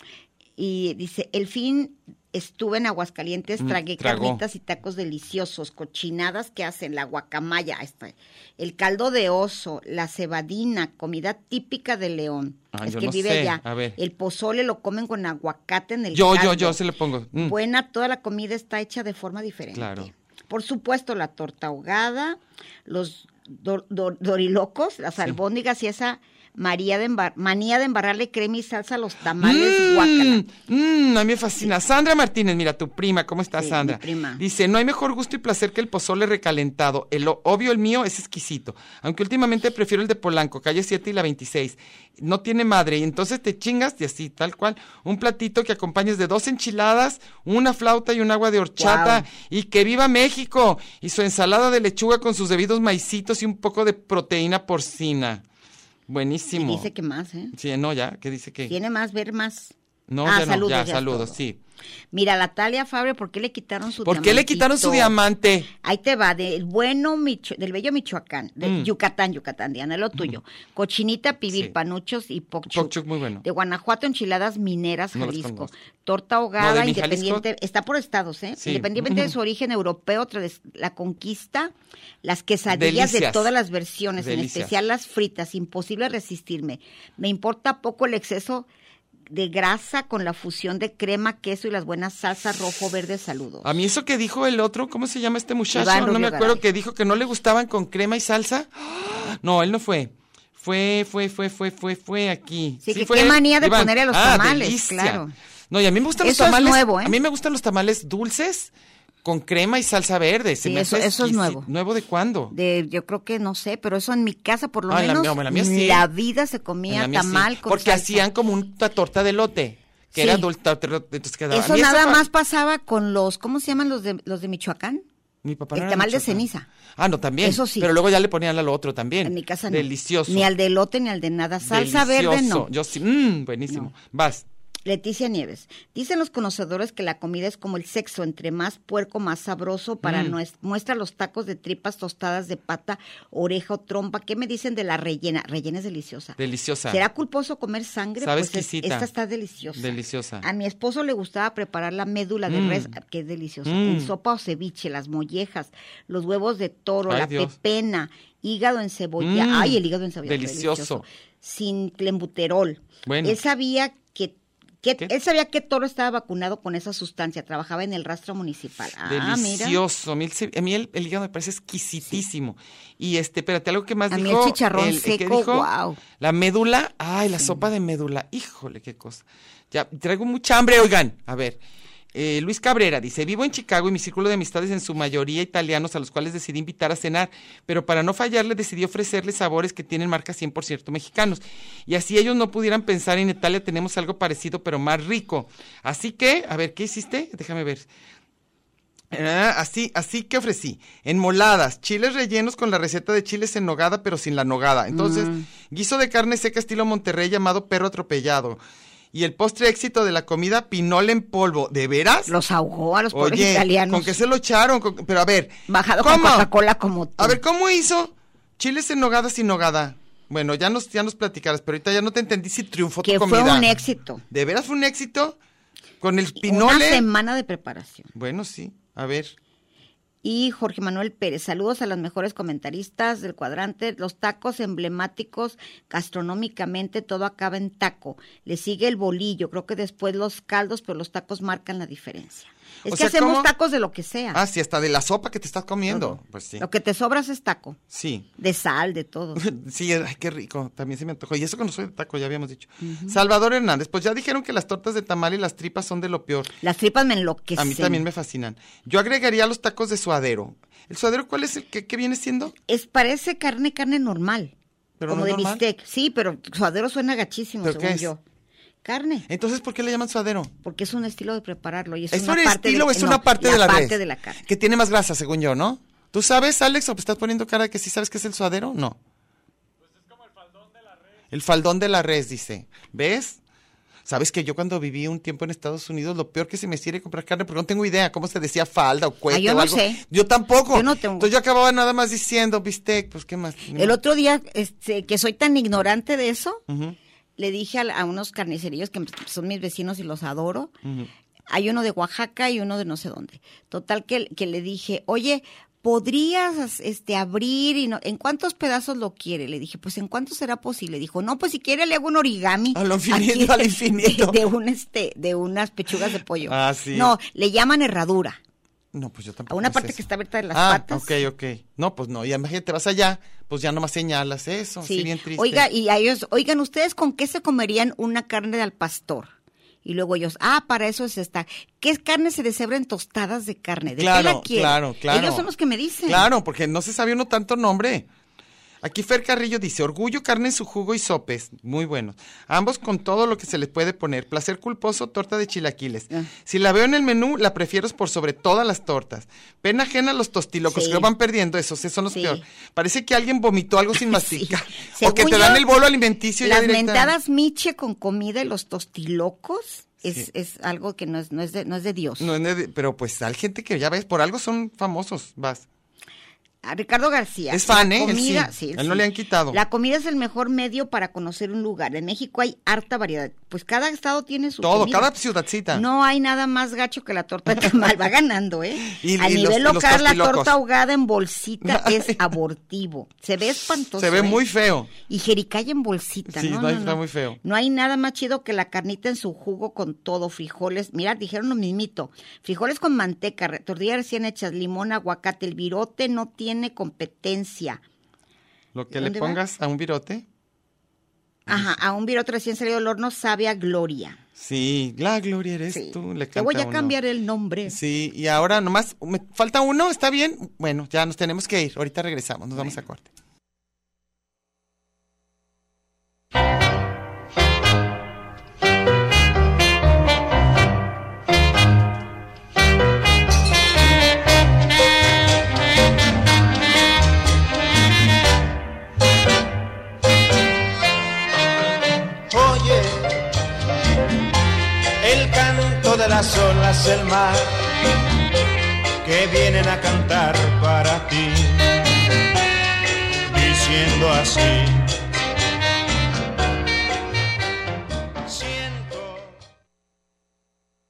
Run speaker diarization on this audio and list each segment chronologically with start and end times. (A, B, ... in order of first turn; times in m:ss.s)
0:00.6-0:16.8 A
0:03.6-0:04.4 B
0:12.7-0:14.0 B
0:16.1-0:17.6 B
0:17.4-0:30.4 A
0:19.7-0:20.1 B
0:29.4-0:55.4 B
0:33.6-0:34.4 A
0:48.8-0:49.3 A
0:56.1-0:56.9 B
0:56.5-0:57.5 A
0:57.5-0:58.7 B
0:58.7-0:59.7 A
1:00.1-1:01.6 B
1:00.2-1:01.4 A
1:02.1-1:05.2 A
1:04.0-1:05.7 B
1:05.8-1:21.7 A
1:08.6-1:08.9 B
1:12.7-1:13.4 B
1:15.2-1:15.7 B
1:16.6-1:17.4 B
1:18.6-1:19.4 B
1:22.2-1:28.7 A
1:22.7-1:23.5 B
1:24.2-1:24.7 B
1:29.3-1:33.7 A
1:33.6-1:48.7 B
1:35.7-1:36.6 A
1:42.8-1:45.3 A
1:46.2-1:47.2 A
1:49.2-1:52.5 B
1:50.6-1:51.7 A
1:52.5-1:58.3 A
1:54.9-1:56.1 B
1:56.9-2:02.2 B
2:00.1-2:00.5 A
2:01.5-2:05.0 A
2:05.4-2:06.4 B
2:05.7-2:06.7 A
2:07.0-2:10.5 B
2:07.4-2:07.9 A
2:09.2-2:12.7 A
2:11.6-2:14.5 B
2:14.9-2:26.4 A
2:20.0-2:20.4 B
2:26.4-2:27.0 B
2:26.9-2:49.8 A
2:28.2-2:29.1 B
2:29.8-2:30.5 B
2:32.5-2:32.9 B
2:33.6-2:34.1 B
2:37.1-2:37.5 B
2:39.2-2:41.0 B
2:43.1-2:43.4 B
2:49.0-3:01.6 B
2:54.1-2:56.0 A
3:02.1-3:17.9 B
3:19.1-3:28.6 B
3:24.9-3:25.5 A
3:29.1-3:32.3 B
3:32.3-3:34.2 A
3:33.1-3:36.5 B
3:35.7-3:37.4 A
3:37.2-3:43.7 B
3:43.0-3:44.2 A
3:44.3-3:45.4 B
3:46.0-3:47.1 B
3:46.4-3:48.1 A
3:48.2-3:49.4 B
3:50.2-4:04.4 A
4:02.9-4:03.5 B
4:04.3-4:06.6 B
4:05.9-4:07.8 A
4:07.9-4:08.3 B
4:08.4-4:09.4 A
4:09.4-4:16.5 B
4:12.8-4:13.2 A
4:16.6-4:18.1 A
4:17.6-4:22.5 B
4:22.6-4:24.5 A
4:25.0-4:25.6 B
4:25.1-4:28.2 A
4:27.6-4:28.1 B
4:28.8-4:29.3 A
4:29.3-4:30.5 B
4:30.6-4:34.5 A
4:32.1-4:39.0 B
4:41.3-4:43.4 B
4:44.1-4:54.0 B
4:49.3-4:50.0 A
4:50.7-4:51.3 A
4:53.8-4:56.6 A
4:56.7-4:57.0 B
4:57.4-5:00.7 A
5:00.8-5:01.1 B
5:01.5-5:18.4 A
5:12.8-5:14.4 B
5:16.4-5:17.1 B
5:18.9-5:20.0 B
5:19.5-5:21.2 A
5:20.5-5:25.7 B
5:24.8-5:29.3 A
5:29.8-5:36.3 A
5:33.9-5:35.5 B
5:36.1-5:38.1 B
5:38.8-5:57.1 B
5:50.7-5:51.1 A
5:52.1-5:52.4 A
5:54.0-5:55.8 A
5:56.4-6:02.3 A
6:02.2-6:05.6 B
6:06.6-6:15.1 A
6:07.5-6:09.6 B
6:14.6-6:15.8 B
6:15.7-6:24.4 A
6:18.8-6:20.6 B
6:21.6-6:22.3 B
6:24.0-6:24.9 B
6:25.1-6:37.8 A
6:26.3-6:27.4 B
6:38.7-6:40.2 B
6:38.9-6:39.4 A
6:41.5-6:41.8 B
6:41.5-6:44.2 A
6:44.4-6:46.9 B
6:45.7-6:47.8 A
6:47.7-6:53.1 B
7:12.3-7:13.2 C
7:15.0-7:17.6 C
7:19.0-7:21.8 C
7:23.3-7:24.9 C
7:28.3-7:29.3 C